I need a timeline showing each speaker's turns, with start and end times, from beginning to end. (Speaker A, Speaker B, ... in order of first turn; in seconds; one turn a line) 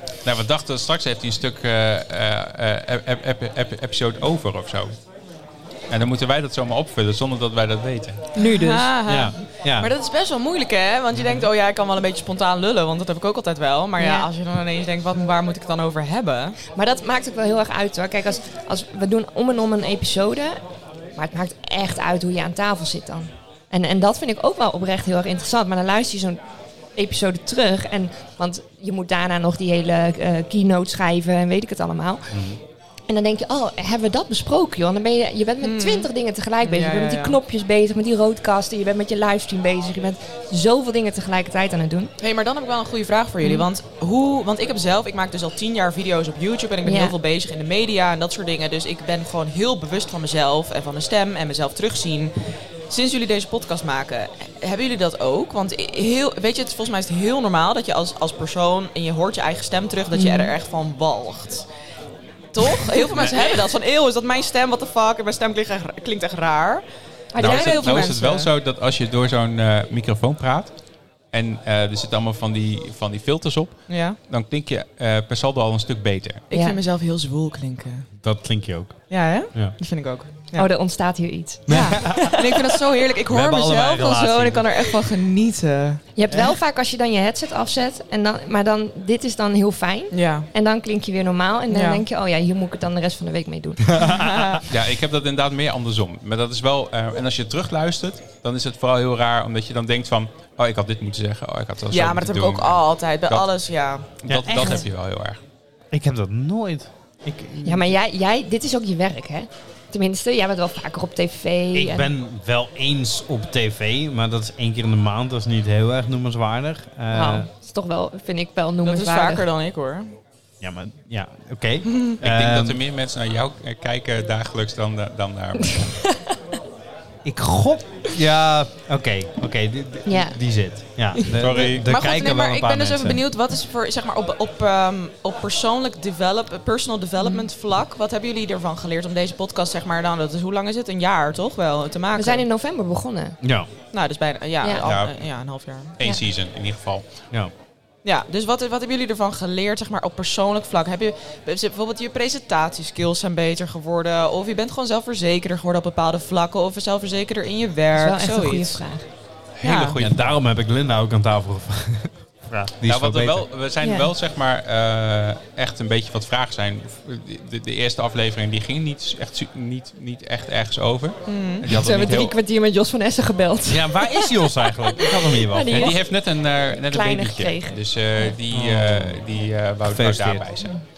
Speaker A: 0.2-4.9
Speaker A: 5.9-8.3
Speaker B: 8.4-8.9
Speaker C: 8.4-16.6
Speaker D: 9.1-9.9
Speaker B: 14.0-14.3
Speaker B: 16.7-20.6
Speaker B: 21.2-26.4
Speaker B: 27.0-32.3
Speaker D: 32.3-32.6
Speaker B: 33.1-42.1
Speaker C: 35.6-36.1
Speaker C: 36.6-37.4
Speaker C: 42.2-52.3
Speaker B: 46.9-47.1
Speaker C: 52.9-61.7
Speaker B: 60.1-60.5
Speaker C: 62.5-66.8
Speaker A: 63.1-63.4
Speaker B: 67.3-68.1
Speaker C: 67.4-68.5
Speaker A: 67.4-70.7
Speaker A: 71.3-76.4
Speaker C: 73.9-74.2
Speaker C: 76.5-78.1
Speaker B: 76.5-76.8
Speaker D: 78.2-79.0
Speaker C: 79.1-80.7
Speaker B: 80.5-82.4
Speaker D: 81.7-82.6
Speaker C: 81.7-86.0
Speaker D: 83.3-85.0
Speaker B: 86.2-94.2
Speaker C: 90.1-90.5
Speaker C: 91.7-92.0
Speaker D: 93.9-94.6
Speaker C: 94.1-94.6
Speaker A: 94.7-103.5
Speaker C: 101.9-104.1
Speaker A: 104.2-105.4
Speaker D: 104.3-104.8
Speaker D: 105.9-107.9
Speaker B: 107.6-112.1
Speaker D: 111.7-117.5
Speaker B: 117.1-119.5
Speaker C: 118.8-120.2
Speaker D: 120.6-122.8
Speaker C: 121.8-122.2
Speaker A: 122.2-126.0
Speaker B: 125.6-126.3
Speaker D: 127.2-133.2
Speaker B: 130.1-130.4
Speaker A: 131.3-131.9
Speaker C: 131.8-142.5
Speaker B: 137.2-137.5
Speaker B: 142.2-143.4
Speaker D: 143.4-143.7
Speaker C: 143.9-146.0
Speaker B: 144.6-144.9
Speaker A: 144.8-145.2
Speaker A: 146.0-147.1
Speaker C: 148.0-158.9
Speaker B: 157.9-159.1
Speaker A: 159.6-160.4
Speaker C: 159.7-160.0
Speaker D: 159.7-163.5
Speaker A: 162.8-172.3
Speaker B: 163.8-164.1
Speaker C: 171.3-171.7
Speaker B: 171.7-174.6
Speaker D: 173.7-176.0
Speaker B: 175.3-176.0
Speaker A: 175.7-180.8
Speaker B: 176.9-177.8
Speaker D: 178.5-179.2
Speaker D: 179.8-180.5